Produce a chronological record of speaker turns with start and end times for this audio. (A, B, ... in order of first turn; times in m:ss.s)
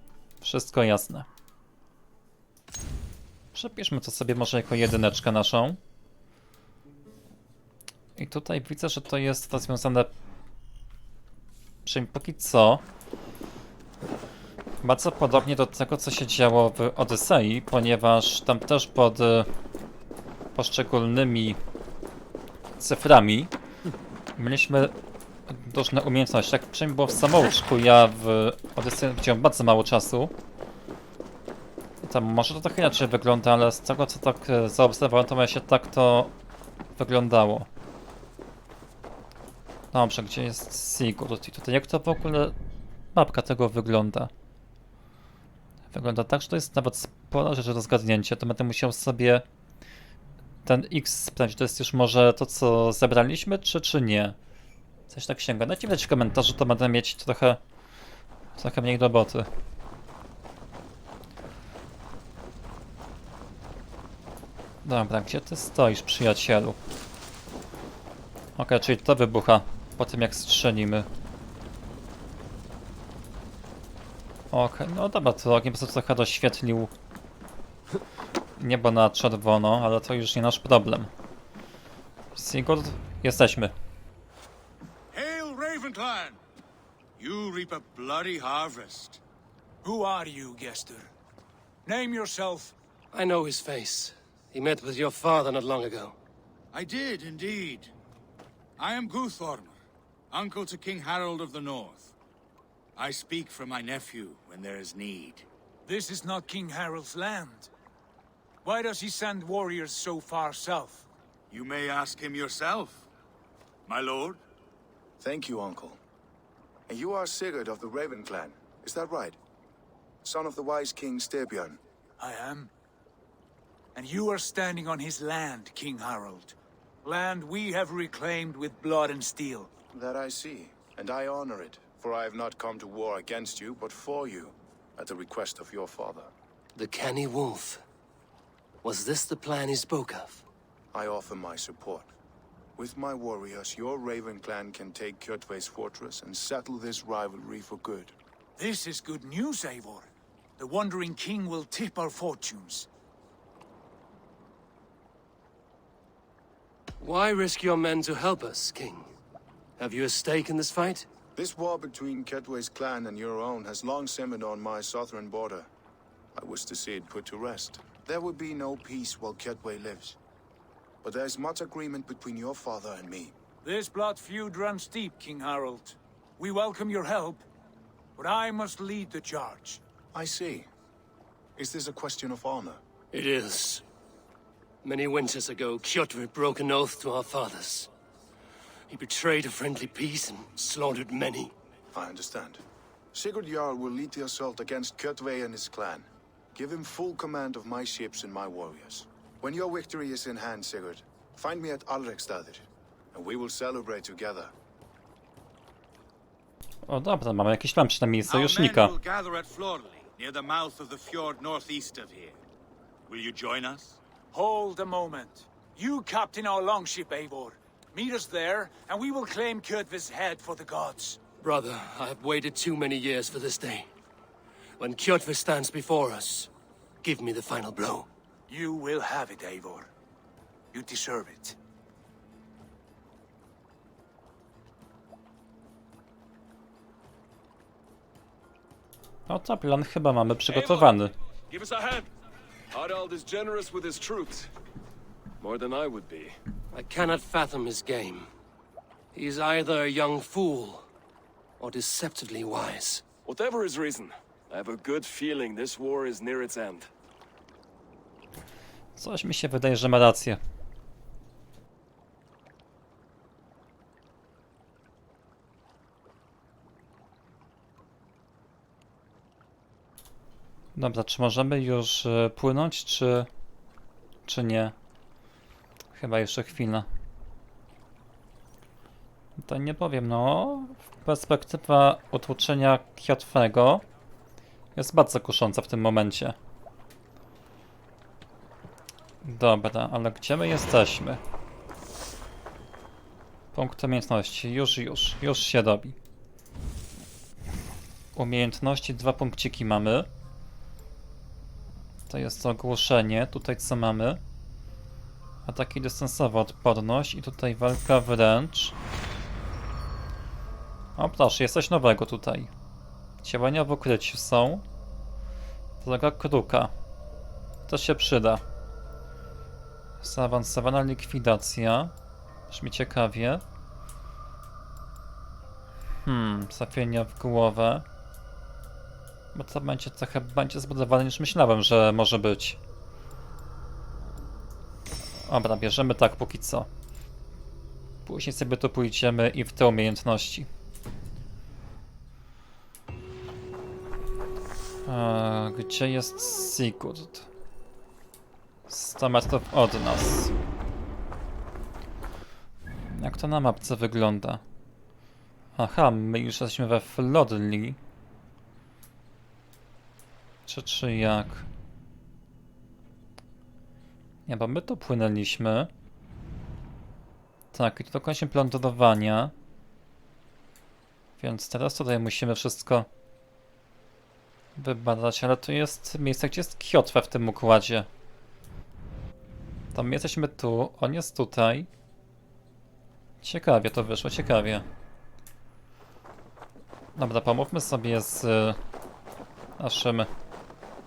0:00.4-0:01.3 A
0:03.5-0:05.8 A
0:08.2-0:10.1 A
0:11.8-0:12.8 A
0:14.8-0:19.5 A
0:20.6-0:21.6 A
0:22.8-0:23.5 A
0:24.4-0:24.9 A
0:25.5-0:30.3 A
0:32.0-0:36.3 A
0:37.0-0:37.7 A
0:39.9-0:42.6 A
0:43.1-0:44.3 A
0:45.9-0:49.4 A
0:50.6-0:54.4 A
0:55.1-0:57.6 A
0:58.6-0:59.5 A
1:04.8-1:06.8 A
1:08.6-1:11.1 A
1:14.5-1:16.9 A
1:18.6-1:21.1 A
1:22.4-1:23.7 A
1:25.1-1:26.4 B
1:27.2-1:29.2 B
1:29.8-1:31.1 C
1:31.8-1:32.7 C
1:33.1-1:36.2 D
1:36.7-1:37.9 B
1:38.8-1:39.8 B
1:40.3-1:42.1 B
1:43.0-1:45.5 B
1:45.9-1:47.7 C
1:48.6-1:51.1 C
1:51.5-1:53.1 B
1:53.9-1:54.4 B
1:55.2-1:56.0 E
1:56.9-1:59.4 E
2:00.2-2:01.8 E
2:02.2-2:02.7 C
2:04.0-2:09.7 C
2:09.9-2:16.3 E
2:16.8-2:17.8 D
2:18.8-2:20.4 D
2:20.9-2:22.1 E
2:22.8-2:28.1 E
2:28.6-2:32.9 C
2:37.0-2:39.1 D
2:39.8-2:41.1 D
2:41.4-2:45.7 E
2:46.4-2:50.2 E
2:51.0-2:53.3 E
2:53.6-2:57.4 C
2:58.2-2:59.8 C
3:00.1-3:00.7 E
3:01.6-3:02.8 E
3:03.1-3:03.8 D
3:04.8-3:07.9 D
3:08.9-3:11.5 D
3:11.9-3:12.6 E
3:13.1-3:24.5 E
3:26.9-3:29.0 A
3:28.3-3:32.4 B
3:33.1-3:34.0 B
3:34.3-3:41.2 C
3:41.4-3:43.9 D
3:44.8-3:46.5 D
3:47.0-3:48.1 D
3:48.5-3:49.9 C
3:50.7-3:51.6 C
3:59.3-4:01.1 A
4:01.5-4:02.1 F
4:02.7-4:04.5 F
4:05.4-4:06.4 F
4:06.7-4:08.3 D
4:09.1-4:10.9 D
4:11.6-4:13.0 D
4:13.3-4:16.9 F
4:19.0-4:20.4 A
4:30.8-4:33.3 A
4:34.3-4:34.8 A
4:36.0-4:36.9 A
4:39.4-4:43.8 A
4:44.8-4:46.4 A
4:49.2-4:51.2 A
4:53.5-4:56.0 A
4:58.2-5:00.1 A
5:02.1-5:04.2 A
5:05.5-5:08.8 A
5:11.0-5:12.5 A
5:13.2-5:14.6 A
5:15.8-5:16.7 A
5:17.7-5:18.4 A
5:20.0-5:21.9 A
5:22.5-5:23.4 A
5:26.0-5:27.8 A
5:29.3-5:32.6 A
5:35.3-5:36.7 A
5:38.0-5:40.5 A
5:44.9-5:47.3 A
5:48.7-5:50.3 A
5:52.9-5:54.4 A
5:55.6-5:57.8 A
6:00.5-6:01.5 A
6:04.3-6:05.7 A
6:07.5-6:09.3 A
6:11.2-6:12.9 A
6:14.6-6:17.9 A
6:19.7-6:21.7 A
6:23.2-6:24.6 A
6:27.0-6:28.6 A
6:29.6-6:30.1 A